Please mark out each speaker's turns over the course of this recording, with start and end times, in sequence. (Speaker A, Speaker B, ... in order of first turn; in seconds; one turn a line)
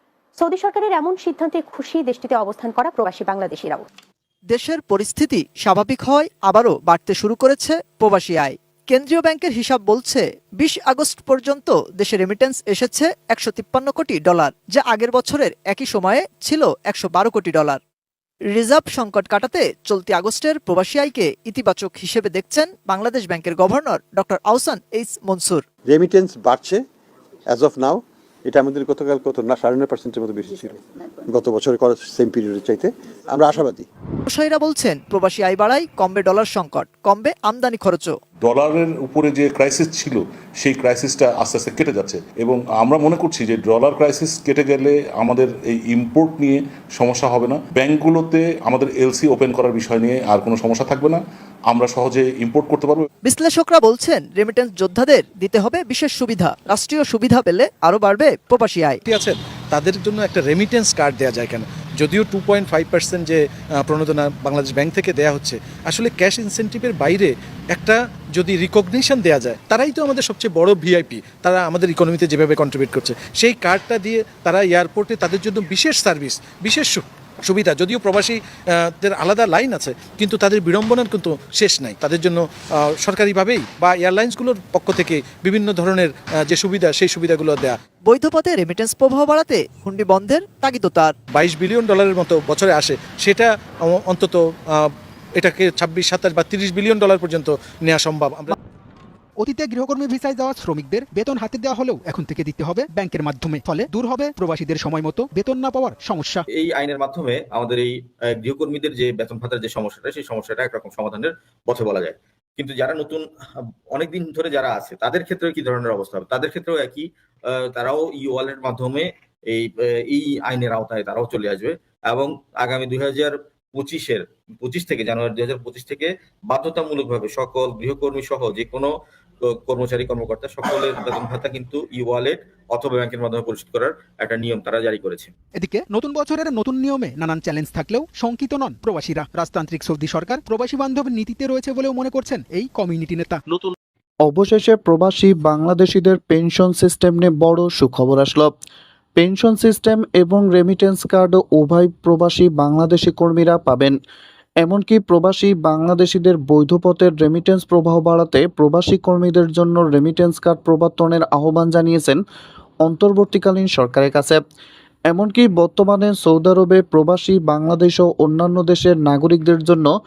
Speaker A: 0.4-3.9
Speaker B: 4.5-17.8
Speaker B: 18.5-25.6
Speaker C: 25.9-26.8
Speaker C: 27.5-33.9
Speaker B: 34.3-38.1
Speaker D: 38.4-53.0
Speaker B: 53.2-59.0
Speaker E: 59.0-87.8
Speaker B: 88.0-91.1
Speaker E: 91.3-98.5
Speaker F: 99.4-106.4
Speaker G: 106.5-113.2
Speaker G: 113.9-128.9
Speaker G: 129.4-135.3
Speaker F: 135.6-143.4
Speaker H: 144.2-148.5
Speaker H: 149.2-153.9
Speaker H: 154.6-162.2
Speaker H: 162.8-164.4
Speaker H: 165.1-169.9